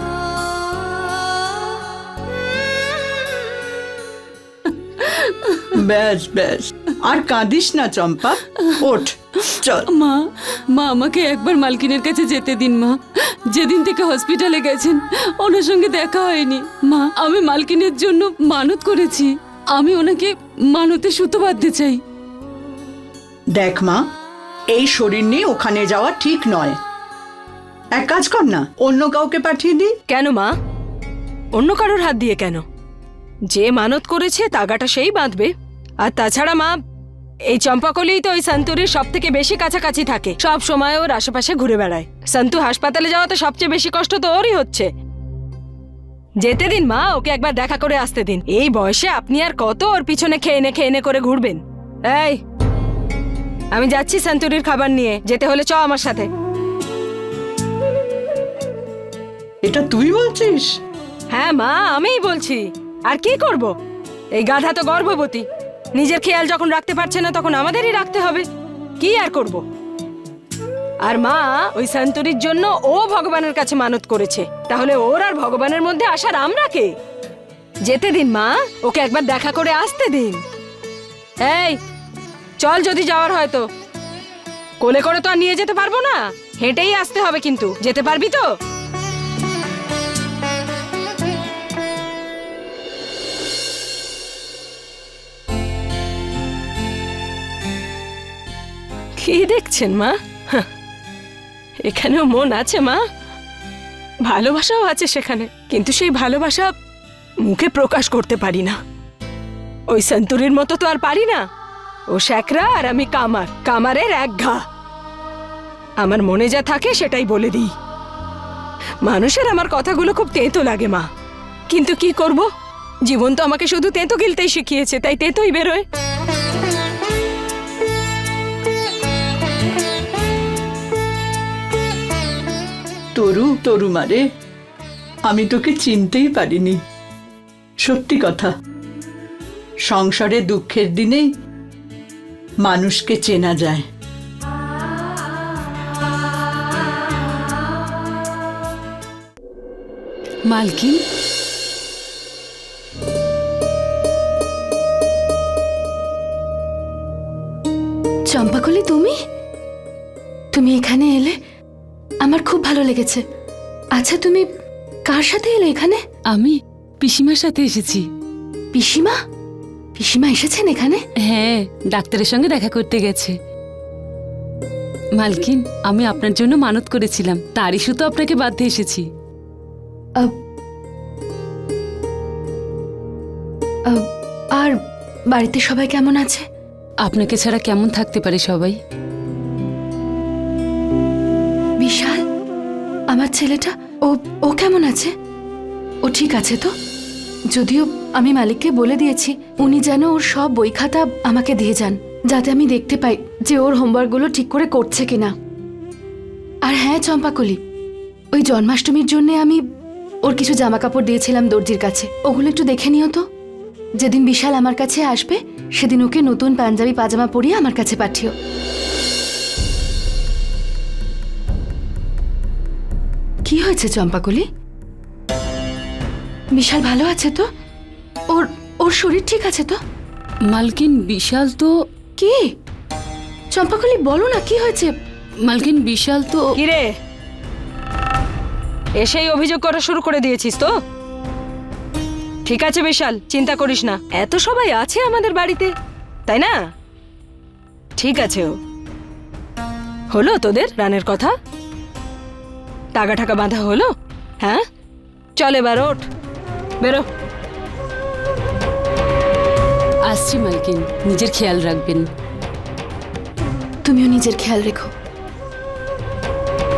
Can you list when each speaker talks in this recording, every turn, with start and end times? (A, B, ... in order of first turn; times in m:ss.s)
0:05.0-0:05.8 A
0:05.7-0:09.9 B
0:09.9-0:13.0 A
0:13.5-0:22.0 A
0:23.5-0:24.0 B
0:24.7-0:26.8 B
0:27.9-0:29.9 B
0:30.1-0:30.5 C
0:31.5-0:32.6 C
0:33.5-0:36.8 C
0:37.5-0:44.9 C
0:46.4-0:52.4 C
0:53.7-0:56.3 C
0:59.6-1:00.8 B
1:01.3-1:03.7 C
1:04.3-1:08.4 C
1:09.0-1:09.6 C
1:11.0-1:16.9 C
1:17.8-1:20.4 C
1:21.4-1:21.8 C
1:22.6-1:23.7 C
1:24.8-1:28.4 C
1:39.2-1:40.7 C
1:41.8-1:43.0 C
1:44.2-1:46.7 C
1:47.4-1:48.8 C
1:49.9-1:51.4 C
1:52.1-1:54.6 C
1:56.0-1:57.7 C
1:59.0-2:01.1 C
2:01.7-2:02.5 C
2:03.1-2:05.8 C
2:13.2-2:14.2 B
2:15.2-2:16.8 B
2:17.8-2:18.5 B
2:19.8-2:21.3 B
2:22.6-2:23.8 B
2:30.5-2:31.0 A
2:38.3-2:39.2 D
2:40.5-2:41.3 D
2:42.2-2:43.2 D
2:44.0-2:44.5 D
2:45.1-2:46.0 D
2:46.3-2:48.0 A
2:48.7-2:49.2 D
2:50.0-2:51.0 D
2:51.2-2:53.3 A
2:55.2-2:59.1 A
3:05.3-3:06.4 D
3:07.0-3:08.8 A
3:11.8-3:12.2 D
3:13.1-3:15.1 D
3:16.0-3:16.7 D
3:17.5-3:25.3 D
3:26.6-3:27.6 D
3:28.3-3:29.6 D
3:30.2-3:33.2 D
3:34.0-3:38.3 D
3:43.4-3:44.4 D
3:46.5-3:47.4 D
3:48.3-3:49.8 D
3:50.5-3:51.7 A
3:52.2-3:52.5 D
3:53.5-3:54.9 D
3:55.4-3:56.6 A
3:56.6-3:56.9 C
3:59.0-4:00.7 C
4:02.4-4:05.7 C
4:06.3-4:06.6 C
4:08.0-4:08.6 C
4:10.1-4:11.3 C
4:12.9-4:14.6 C
4:15.4-4:16.1 C
4:20.1-4:22.1 A
4:23.8-4:24.9 D